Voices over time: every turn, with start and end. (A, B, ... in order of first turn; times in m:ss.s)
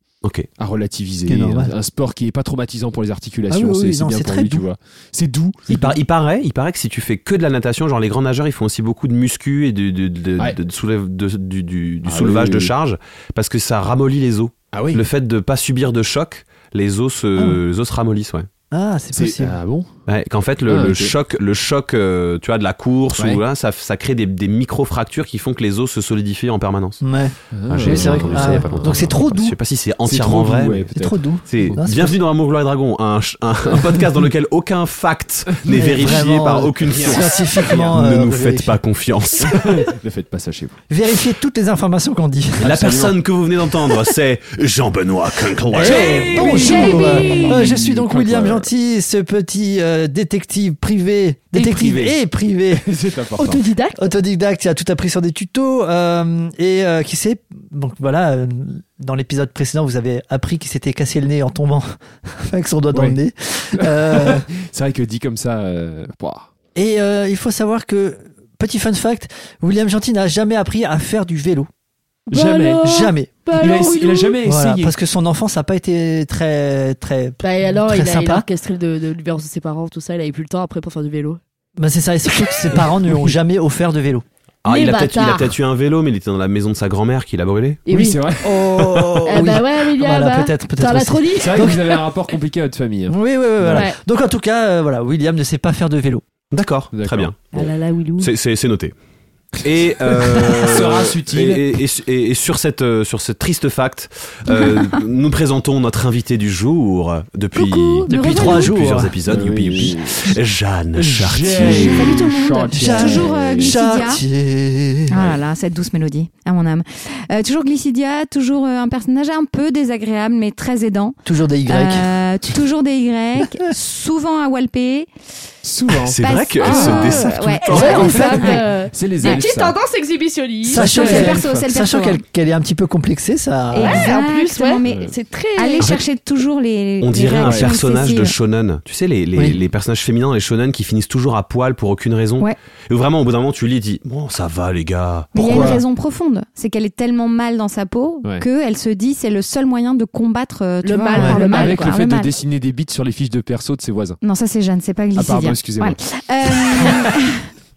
0:00.2-0:00.5 A
0:00.6-0:05.9 B
0:01.2-0:01.7 C
0:03.5-0:04.6 C
0:05.7-0:18.5 A
0:12.0-0:12.7 B
0:14.7-0:15.0 B
0:17.4-0:17.6 C
0:18.7-0:19.6 C
0:19.1-0:20.0 B
0:20.1-0:27.0 A
0:20.6-0:21.1 B
0:23.2-0:23.4 B
0:27.0-0:29.6 C
0:27.5-0:29.2 B
0:27.7-0:30.9 A
0:30.0-0:31.8 B
0:30.9-0:32.2 C
0:31.5-0:39.8 A
0:35.6-0:36.1 B
0:35.7-0:38.8 C
0:36.8-0:38.0 B
0:39.4-0:40.8 B
0:40.9-0:43.0 C
0:42.6-0:46.3 A
0:42.6-0:43.1 B
0:45.7-0:52.9 C
0:45.7-0:48.7 B
0:46.2-0:47.6 D
0:51.5-0:52.2 B
0:52.7-0:53.6 B
0:53.4-0:54.1 D
0:53.9-1:04.5 C
1:02.9-1:03.2 B
1:03.7-1:06.5 B
1:06.8-1:11.7 C
1:12.3-1:14.4 D
1:12.3-1:12.9 B
1:12.8-1:13.3 C
1:13.5-1:14.9 B
1:14.4-1:18.5 C
1:17.4-1:21.4 D
1:21.8-1:24.2 C
1:24.6-1:27.8 A
1:24.7-1:25.5 D
1:27.8-1:32.0 D
1:27.9-1:29.6 B
1:28.5-1:31.8 C
1:31.3-1:33.9 B
1:33.1-1:36.2 C
1:33.7-1:34.0 D
1:36.5-1:37.5 A
1:36.9-1:37.6 B
1:37.5-1:38.3 D
1:38.2-1:38.9 A
1:39.6-1:52.3 A
1:40.1-1:41.6 B
1:44.5-1:45.0 E
1:47.5-1:48.7 D
1:48.1-1:49.1 C
1:49.2-1:50.4 B
1:50.9-1:53.8 B
1:51.6-1:54.2 E
1:52.7-1:55.1 C
1:55.1-2:05.1 E
2:01.2-2:02.2 C
2:05.6-2:06.4 B
2:06.0-2:08.0 A
2:06.2-2:08.6 E
2:06.6-2:10.9 D
2:07.7-2:08.6 C
2:08.0-2:09.8 B
2:10.6-2:14.1 C
2:10.7-2:11.7 B
2:10.8-2:12.2 E
2:13.7-2:16.0 D
2:13.7-2:18.4 E
2:14.8-2:15.1 B
2:17.0-2:25.8 A
2:17.4-2:17.8 B
2:25.3-2:32.3 E
2:25.4-2:25.8 B
2:30.8-2:32.0 D
2:31.1-2:31.4 C
2:31.4-2:34.2 B
2:34.2-2:37.4 E
2:35.1-2:36.9 B